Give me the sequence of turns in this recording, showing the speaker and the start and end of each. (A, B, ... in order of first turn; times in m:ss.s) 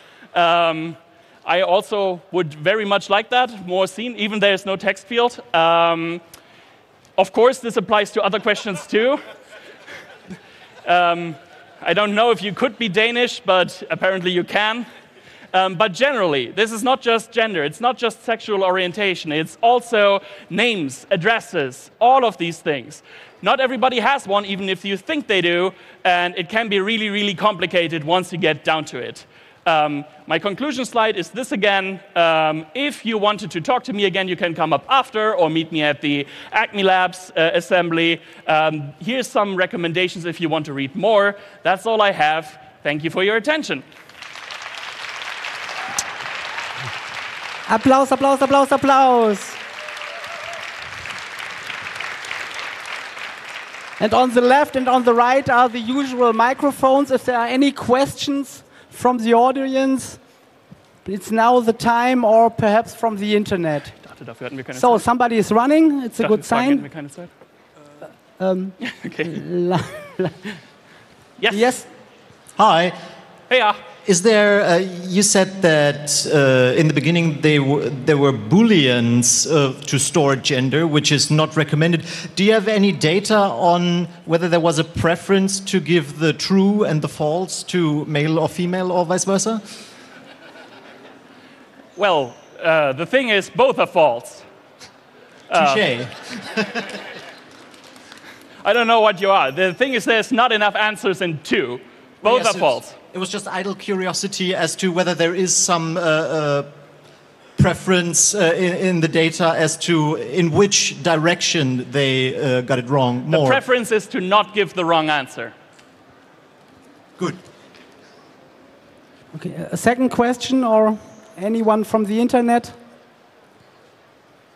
0:00.3-0:06.2 A
0:07.2-0:09.2 A
0:10.8-0:14.8 A
0:15.5-0:43.8 A
0:47.7-0:49.6 B
0:54.0-1:00.2 B
1:01.0-1:04.0 B
1:04.0-1:05.0 A
1:04.7-1:06.9 B
1:06.2-1:07.3 A
1:08.4-1:10.4 B
1:08.8-1:09.4 A
1:11.4-1:11.7 A
1:11.5-1:11.9 B
1:12.6-1:12.9 C
1:13.5-1:13.8 A
1:14.0-1:29.6 C
1:32.0-1:34.4 A
1:35.5-1:35.8 A
1:35.5-1:36.9 C
1:38.6-1:43.0 A
1:42.2-1:46.7 C
1:47.6-1:53.6 C
1:53.3-1:55.5 A
1:59.3-2:02.8 B